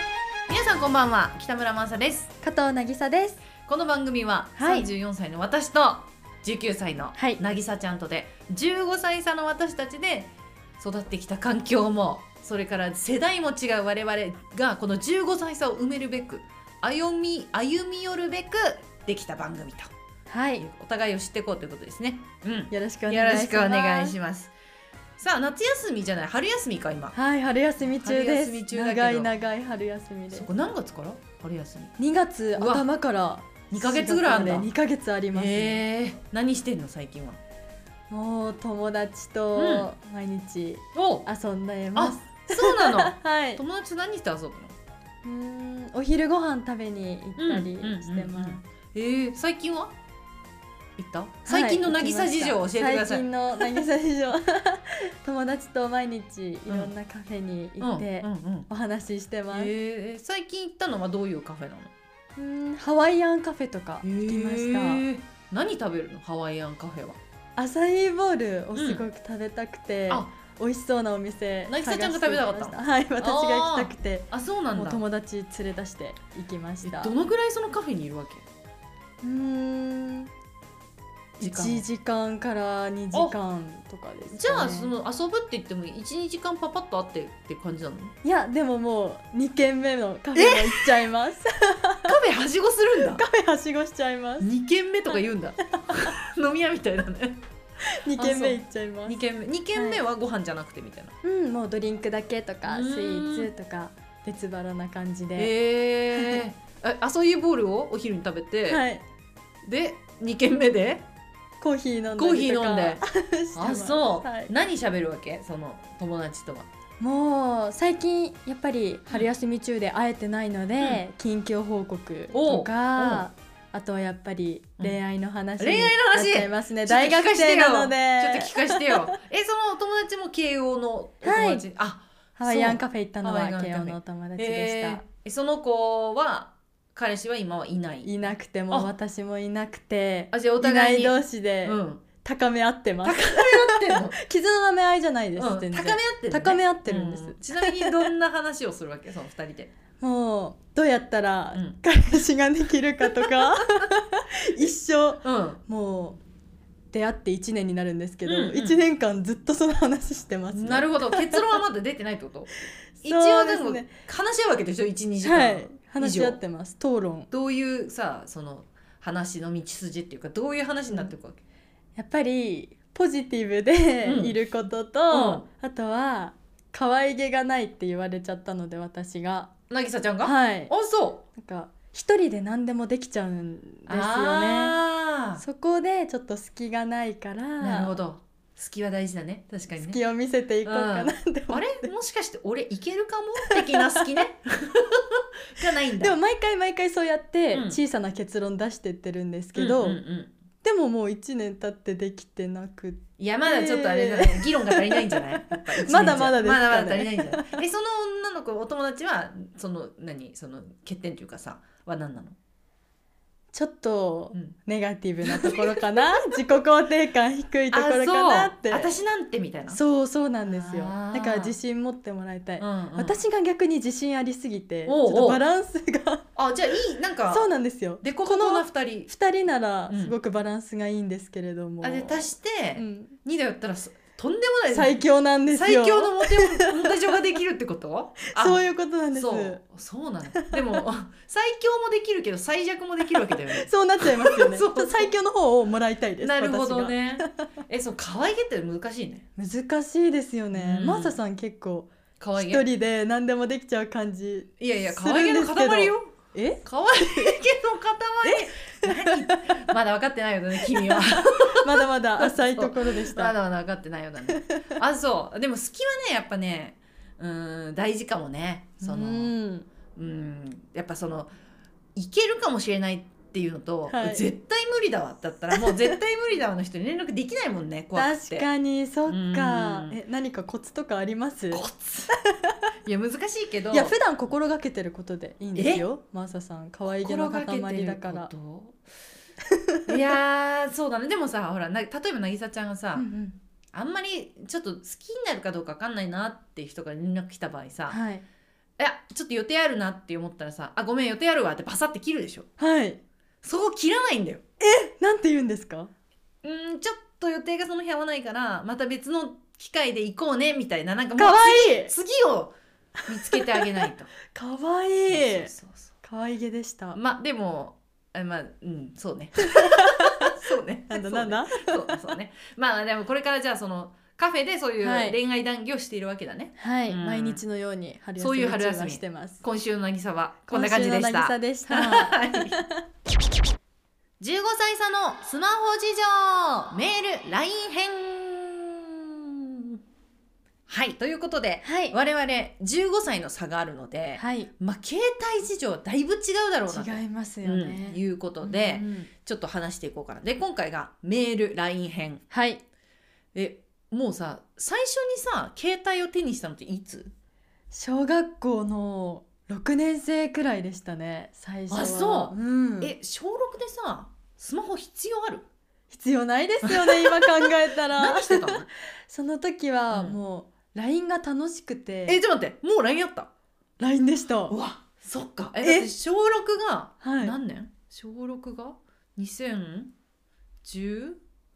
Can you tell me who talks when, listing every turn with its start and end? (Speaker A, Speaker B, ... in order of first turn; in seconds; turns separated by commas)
Speaker A: 0.5-2.3, Speaker B: 2.4-3.4, Speaker A: 3.6-19.9, Speaker B: 4.6-4.9, Speaker B: 7.2-7.4, Speaker B: 20.3-20.6, Speaker A: 20.6-24.5, Speaker B: 22.7-24.2, Speaker A: 25.2-27.1, Speaker B: 27.1-30.5, Speaker A: 28.0-29.3, Speaker A: 30.3-31.9, Speaker B: 32.0-35.8, Speaker A: 32.6-32.9, Speaker A: 33.7-34.7, Speaker A: 35.3-37.4, Speaker B: 38.1-43.6, Speaker A: 39.5-39.9, Speaker A: 41.0-41.2, Speaker A: 42.0-44.8, Speaker B: 45.2-48.6, Speaker A: 47.4-50.0, Speaker A: 51.0-53.9, Speaker B: 51.5-59.7, Speaker A: 56.7-56.9, Speaker A: 57.8-58.7, Speaker A: 59.5-61.9, Speaker B: 62.4-65.1, Speaker A: 64.0-67.2, Speaker B: 67.6-77.2, Speaker A: 68.8-69.0, Speaker A: 71.7-75.0, Speaker A: 76.8-78.5, Speaker B: 79.2-80.3, Speaker A: 81.4-81.8, Speaker B: 81.4-84.9, Speaker A: 84.3-88.1, Speaker B: 88.2-92.2, Speaker A: 90.3-91.0, Speaker A: 92.0-93.2, Speaker B: 93.0-94.5, Speaker A: 94.4-97.4, Speaker B: 95.7-96.1, Speaker B: 97.8-99.2, Speaker A: 98.1-101.1, Speaker B: 99.7-100.0, Speaker B: 101.2-105.5, Speaker A: 102.7-103.5, Speaker A: 105.4-108.8, Speaker B: 106.1-106.4, Speaker B: 108.7-109.0, Speaker A: 109.6-111.0, Speaker B: 111.6-114.5, Speaker A: 112.1-113.0, Speaker A: 113.5-116.7, Speaker B: 117.0-129.2, Speaker A: 122.3-123.2, Speaker A: 125.6-138.1, Speaker B: 131.2-131.7, Speaker B: 132.4-135.0, Speaker B: 138.0-148.1, Speaker A: 140.3-142.0, Speaker A: 143.0-144.2, Speaker A: 145.4-149.7, Speaker B: 150.0-156.2, Speaker A: 153.0-153.9, Speaker A: 155.2-155.6, Speaker B: 156.9-161.6, Speaker A: 158.2-158.8, Speaker A: 160.5-162.5, Speaker B: 163.0-163.9, Speaker A: 163.0-166.4, Speaker B: 165.2-167.3, Speaker A: 167.3-171.4, Speaker B: 172.0-179.5, Speaker A: 174.0-174.4, Speaker A: 175.1-175.4, Speaker A: 179.7-181.2, Speaker B: 180.2-180.7, Speaker B: 181.3-184.8, Speaker A: 183.9-185.4, Speaker B: 185.4-188.0, Speaker A: 187.6-190.0, Speaker B: 189.8-191.9, Speaker A: 190.7-196.2, Speaker B: 193.4-194.2, Speaker B: 196.0-200.0, Speaker A: 197.5-197.8, Speaker A: 199.6-200.3, Speaker B: 200.6-207.6, Speaker A: 203.2-212.4, Speaker B: 213.5-218.9, Speaker A: 215.2-216.4, Speaker A: 217.7-219.8, Speaker B: 219.7-226.2, Speaker A: 220.5-221.6, Speaker A: 222.6-223.2, Speaker A: 224.9-225.4, Speaker A: 226.4-227.5, Speaker B: 227.3-233.2, Speaker A: 228.0-229.1, Speaker A: 229.9-230.2, Speaker A: 231.8-245.1, Speaker B: 234.7-237.2, Speaker B: 238.3-239.6, Speaker B: 240.3-240.8, Speaker B: 243.1-247.5, Speaker A: 246.2-249.3, Speaker B: 249.4-257.4, Speaker A: 250.5-251.2, Speaker A: 252.2-252.7, Speaker A: 254.6-256.1, Speaker A: 256.6-269.4, Speaker B: 258.2-259.7, Speaker B: 260.6-263.4, Speaker B: 264.3-264.8, Speaker B: 268.8-269.7, Speaker A: 270.0-271.3, Speaker A: 272.0-278.5, Speaker B: 273.9-274.2, Speaker B: 275.6-275.9, Speaker B: 277.9-282.6, Speaker A: 279.1-280.0, Speaker A: 281.5-282.1, Speaker A: 282.9-284.0, Speaker B: 283.7-288.3, Speaker A: 285.6-285.9, Speaker A: 286.9-288.8, Speaker B: 289.5-289.9, Speaker A: 289.9-293.1, Speaker B: 293.0-293.4, Speaker A: 293.7-298.0, Speaker B: 297.9-298.2, Speaker A: 298.8-302.5, Speaker B: 302.6-303.0, Speaker A: 303.4-304.4, Speaker B: 304.6-305.9, Speaker A: 306.4-312.5, Speaker B: 311.1-311.9, Speaker A: 313.1-314.1, Speaker B: 313.1-317.0, Speaker A: 315.1-315.9, Speaker A: 316.9-327.4, Speaker B: 319.4-320.3, Speaker B: 320.9-322.0, Speaker B: 324.8-325.2, Speaker B: 326.6-329.4, Speaker A: 328.2-332.6, Speaker B: 330.5-332.8, Speaker A: 334.2-339.8, Speaker A: 340.7-352.2, Speaker B: 341.6-342.0, Speaker B: 344.2-344.5, Speaker B: 346.7-349.1, Speaker B: 352.3-352.6, Speaker A: 353.3-357.1, Speaker B: 357.7-362.9, Speaker A: 361.7-365.5, Speaker B: 365.9-372.2, Speaker A: 366.6-368.7, Speaker A: 369.9-370.2, Speaker A: 372.1-373.3, Speaker B: 373.8-374.6, Speaker A: 374.5-379.9, Speaker B: 375.6-375.9, Speaker B: 377.0-377.4, Speaker A: 380.6-381.2